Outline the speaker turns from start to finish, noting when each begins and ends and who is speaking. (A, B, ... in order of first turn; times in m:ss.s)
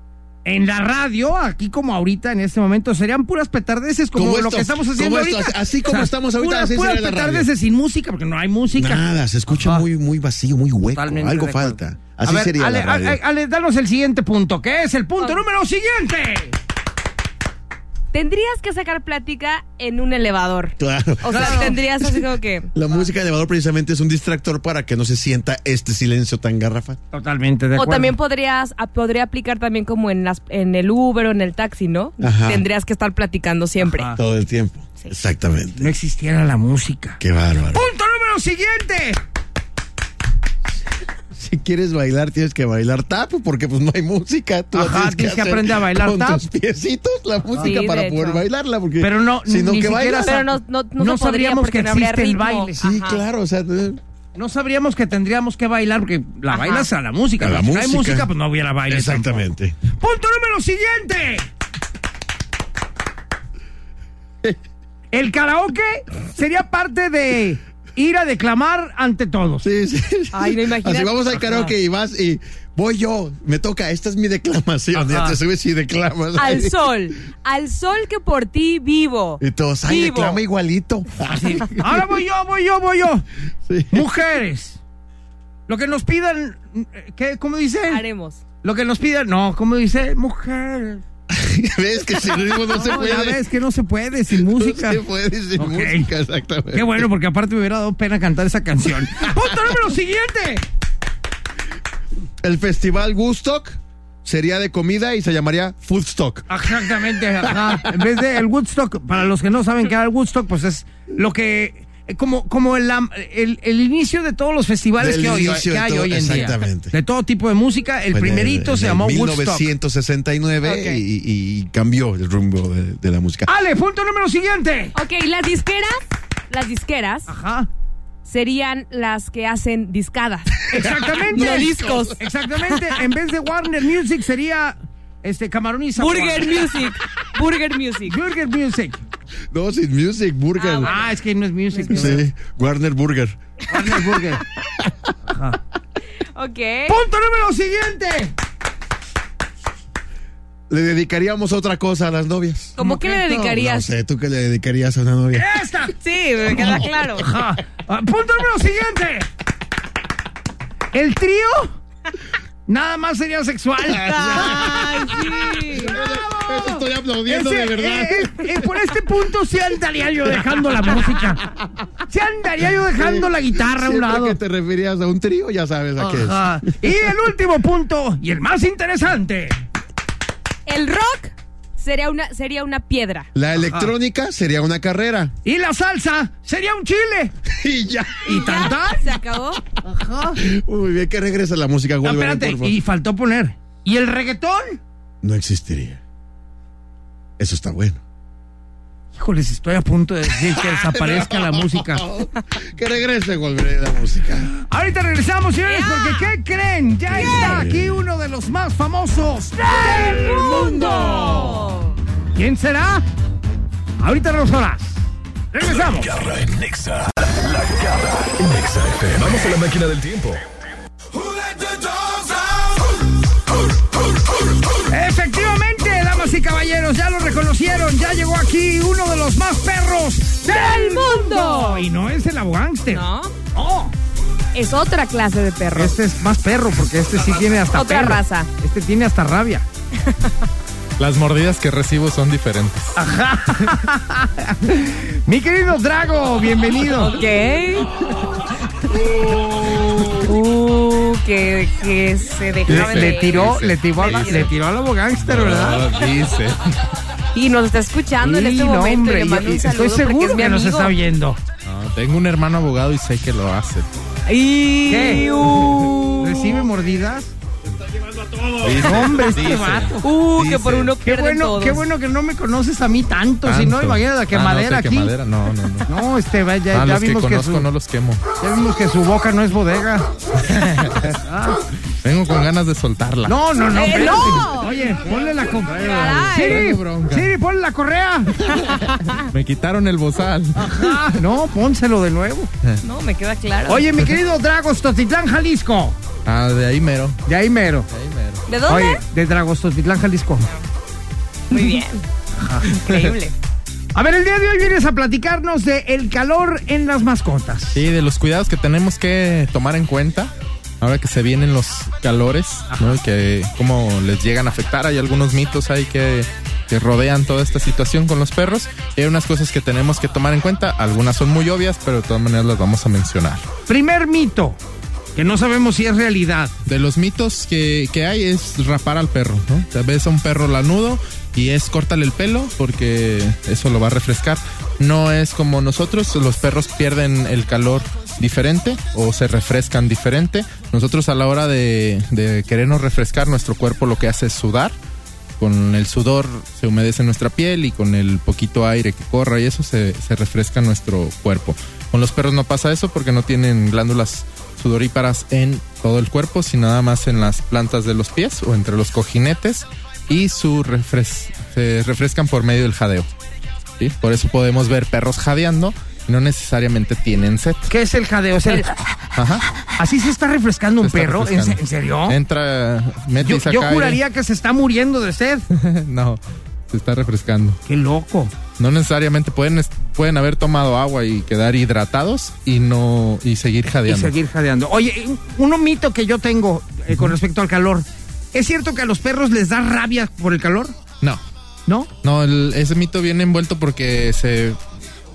0:00.4-0:09.9 A
0:04.1-0:07.5 B
0:08.7-0:13.2 B
0:10.9-0:16.6 A
0:18.1-0:22.7 C
0:20.8-0:22.2 B
0:21.3-0:21.8 A
0:22.7-0:27.0 B
0:27.1-0:28.1 A
0:27.7-0:34.1 C
0:32.2-0:32.6 B
0:33.8-0:34.2 A
0:34.2-0:35.9 B
0:35.8-0:37.2 A
0:37.2-0:37.8 B
0:37.7-0:39.2 A
0:41.3-0:50.3 B
0:44.7-0:46.5 A
0:47.5-0:47.8 A
0:47.6-0:48.4 C
0:49.0-0:52.8 A
0:50.2-0:53.2 C
0:52.8-0:54.0 B
0:54.3-1:01.5 A
0:56.5-0:56.9 C
0:57.4-0:58.3 B
0:58.9-0:59.8 B
1:05.1-1:09.6 A
1:09.6-1:16.8 B
1:10.3-1:11.2 C
1:11.3-1:11.7 A
1:14.9-1:15.4 A
1:16.4-1:20.4 C
1:19.4-1:21.9 B
1:21.2-1:23.2 A
1:23.6-1:24.0 B
1:23.9-1:24.8 A
1:25.7-1:28.0 A
1:27.9-1:28.4 C
1:28.6-1:31.0 A
1:31.3-1:33.4 B
1:32.5-1:35.0 A
1:34.4-1:37.1 B
1:35.6-1:36.1 A
1:36.7-1:40.6 A
1:42.4-1:46.5 B
1:46.5-1:59.7 A
1:47.4-1:47.9 B
1:55.0-1:56.9 B
1:58.1-2:03.5 B
2:00.6-2:01.0 C
2:03.4-2:04.9 A
2:04.9-2:06.0 C
2:06.5-2:07.3 C
2:07.3-2:07.7 A
2:08.2-2:10.7 C
2:10.7-2:16.9 A
2:11.1-2:12.1 B
2:11.3-2:12.2 C
2:16.0-2:18.2 C
2:18.0-2:19.0 A
2:19.5-2:20.9 B
2:20.6-2:21.0 C
2:20.8-2:22.2 A
2:21.7-2:22.2 C
2:21.9-2:23.4 B
2:23.7-2:24.4 A
2:25.3-2:25.6 A
2:26.3-2:27.0 C
2:26.9-2:28.3 A
2:30.7-2:35.5 B
2:32.8-2:33.9 C
2:32.8-2:33.1 A
2:35.3-2:36.0 A
2:36.0-2:37.3 C
2:36.5-2:39.3 A
2:40.9-2:41.8 A
2:42.7-2:51.4 A
2:43.9-2:45.0 B
2:44.0-2:46.0 C
2:45.7-2:48.6 B
2:52.1-2:54.4 A
2:52.9-2:56.7 B
2:56.0-2:59.6 A
3:00.6-3:03.3 C
3:03.3-3:05.3 B
3:03.6-3:03.9 A
3:05.4-3:07.3 A
3:07.5-3:08.3 B
3:08.2-3:09.1 A
3:08.3-3:09.6 C
3:09.8-3:10.4 A
3:10.4-3:12.8 B
3:12.0-3:14.8 A
3:15.2-3:16.0 B
3:17.4-3:18.0 B
3:19.1-3:22.0 A
3:20.5-3:24.5 B
3:24.6-3:31.8 A
3:25.7-3:26.3 C
3:27.1-3:28.0 B
3:27.1-3:27.6 C
3:29.7-3:31.9 C
3:30.1-3:31.2 B
3:32.3-3:33.0 A
3:34.0-3:36.1 A
3:35.6-3:40.4 D
3:44.9-3:53.9 A
3:50.4-3:51.9 C
3:52.9-3:53.3 C
3:54.5-3:56.0 C
3:55.7-3:59.6 A
3:57.7-3:58.5 C
4:01.0-4:03.0 E
4:03.0-4:07.2 A
4:07.0-4:08.1 C
4:09.4-4:09.8 A
4:10.0-4:14.5 C
4:12.7-4:15.9 A
4:12.7-4:14.5 E
4:15.2-4:16.8 E
4:17.3-4:20.9 C
4:18.2-4:21.4 A
4:21.6-4:23.9 E
4:24.2-4:26.7 C
4:24.8-4:27.3 A
4:28.6-4:30.9 E
4:28.6-4:30.1 A
4:30.0-4:31.8 C
4:31.0-4:35.1 A
4:33.4-4:35.9 E
4:35.8-4:37.7 A
4:36.7-4:38.2 E
4:38.4-4:41.6 A
4:40.6-4:41.0 E
4:42.0-4:43.4 E
4:43.2-4:48.5 A
4:43.7-4:44.7 C
4:45.5-4:47.3 E
4:45.8-4:46.7 C
4:48.7-4:49.2 C
4:49.1-4:50.9 E
4:50.5-4:52.5 A
4:52.8-4:53.9 C
4:53.7-4:56.0 A
4:56.2-4:57.2 E
4:57.3-4:57.9 A
4:57.9-4:58.4 E
4:58.5-4:59.0 C
4:58.6-5:00.5 A
5:01.5-5:02.0 C
5:02.4-5:02.8 A
5:02.6-5:03.3 C
5:03.9-5:07.8 A
5:07.7-5:23.5 E
5:12.7-5:13.0 A
5:23.7-5:24.6 A
5:25.1-5:26.5 A
5:26.6-5:44.8 E
5:45.4-6:03.1 E
6:03.8-6:07.7 E
6:07.7-6:08.8 A
6:09.2-6:09.4 E
6:09.8-6:12.2 A
6:10.8-6:14.0 E
6:13.2-6:15.5 A
6:15.5-6:17.6 E
6:17.6-6:18.3 A
6:18.6-6:24.1 E
6:23.8-6:30.8 A
6:32.0-6:34.6 E